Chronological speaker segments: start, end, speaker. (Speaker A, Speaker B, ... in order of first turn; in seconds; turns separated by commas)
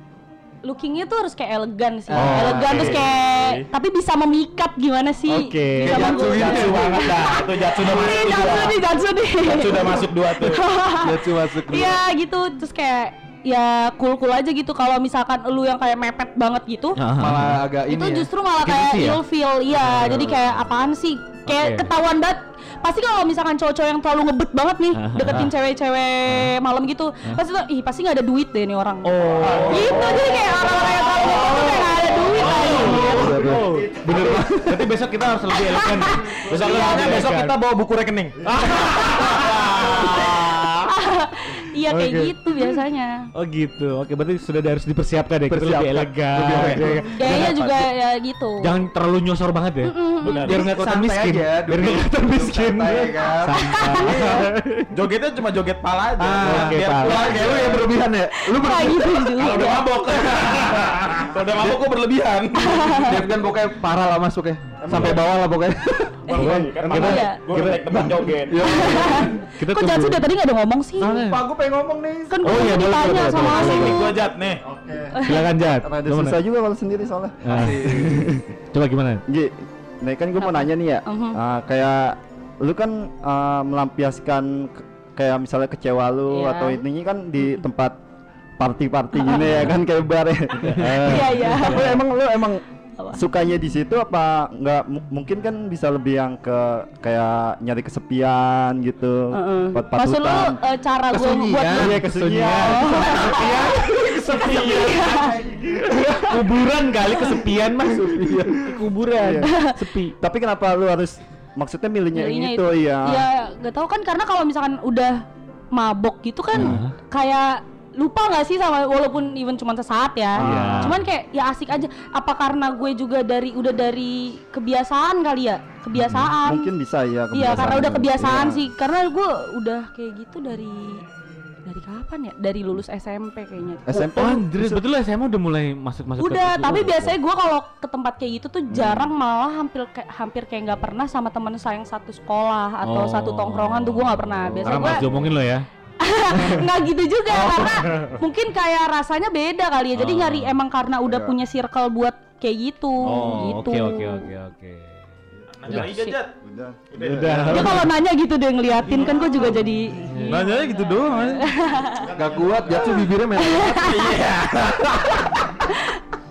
Speaker A: 0.6-17.0, Speaker B: 2.1-3.0, Speaker C: 2.1-2.8, Speaker D: 2.5-3.7, Speaker C: 5.3-6.5, Speaker B: 5.8-7.2, Speaker D: 6.1-8.8, Speaker D: 9.4-10.6, Speaker B: 10.9-12.0, Speaker C: 17.0-17.6, Speaker B: 17.2-18.3, Speaker A: 17.9-33.5, Speaker C: 18.6-19.2, Speaker C: 19.7-20.5, Speaker C: 21.5-21.9, Speaker C: 24.9-25.5, Speaker C: 26.3-26.5, Speaker C: 29.0-37.6, Speaker D: 29.4-31.6, Speaker D: 32.3-33.6, Speaker B: 32.5-35.0, Speaker E: 33.6-34.4, Speaker A: 35.5-37.3, Speaker D: 36.4-40.9, Speaker E: 38.4-39.7, Speaker C: 38.5-39.7, Speaker A: 40.9-43.3, Speaker C: 41.9-42.4, Speaker C: 43.3-47.5, Speaker B: 45.5-47.8, Speaker D: 46.5-47.8, Speaker A: 47.1-48.7, Speaker C: 48.6-54.9, Speaker A: 49.8-50.5, Speaker D: 50.2-50.7, Speaker B: 50.4-54.5, Speaker A: 53.5-54.4, Speaker D: 54.9-57.9, Speaker B: 56.2-59.4, Speaker C: 56.4-57.2, Speaker A: 58.4-59.9, Speaker D: 59.3-63.2, Speaker B: 60.6-61.9, Speaker A: 62.6-63.2, Speaker B: 63.0-66.9, Speaker E: 64.8-65.2, Speaker C: 64.9-65.2, Speaker C: 66.3-68.3, Speaker D: 66.3-68.8, Speaker A: 66.9-67.4, Speaker B: 68.5-69.4, Speaker A: 68.6-71.2, Speaker C: 69.6-70.2, Speaker C: 71.0-71.4, Speaker E: 71.3-72.7, Speaker A: 72.3-74.1, Speaker C: 72.4-74.1, Speaker D: 73.3-74.6, Speaker E: 74.6-78.3, Speaker A: 75.1-75.5, Speaker C: 75.2-76.4, Speaker C: 77.4-79.2, Speaker B: 77.5-78.4, Speaker E: 79.3-88.0, Speaker A: 80.4-81.4, Speaker A: 86.3-86.8, Speaker E: 88.6-92.6, Speaker A: 89.2-89.6, Speaker C: 90.6-92.0, Speaker B: 90.8-91.1, Speaker A: 91.0-92.0, Speaker E: 93.1-100.6, Speaker A: 99.3-102.0, Speaker B: 101.1-102.1, Speaker E: 101.7-103.4, Speaker C: 101.8-110.1, Speaker A: 102.5-105.3, Speaker D: 104.4-105.0, Speaker E: 105.5-105.9, Speaker B: 108.0-108.7, Speaker E: 109.1-109.5, Speaker A: 109.4-109.8, Speaker E: 110.2-113.2, Speaker A: 112.1-126.7, Speaker C: 116.5-116.9, Speaker E: 120.4-121.0, Speaker C: 120.4-121.0, Speaker C: 125.9-126.4, Speaker E: 126.4-128.7, Speaker A: 127.3-131.0, Speaker A: 131.6-134.2, Speaker E: 133.9-134.8, Speaker C: 134.1-137.2, Speaker A: 136.2-145.1, Speaker E: 138.7-139.1, Speaker C: 142.8-145.7, Speaker B: 144.8-145.2, Speaker A: 146.0-154.3, Speaker C: 146.3-148.2, Speaker C: 149.9-150.5, Speaker B: 151.1-151.3, Speaker C: 153.0-155.0, Speaker D: 155.5-156.3, Speaker A: 155.7-156.2, Speaker E: 156.4-157.5, Speaker D: 156.9-157.8, Speaker C: 157.0-157.9, Speaker A: 157.5-162.1, Speaker E: 158.9-161.2, Speaker C: 160.1-160.4, Speaker D: 160.2-161.5, Speaker E: 161.9-163.3, Speaker B: 162.2-164.0, Speaker A: 163.3-164.2, Speaker D: 163.7-165.4, Speaker A: 165.6-166.0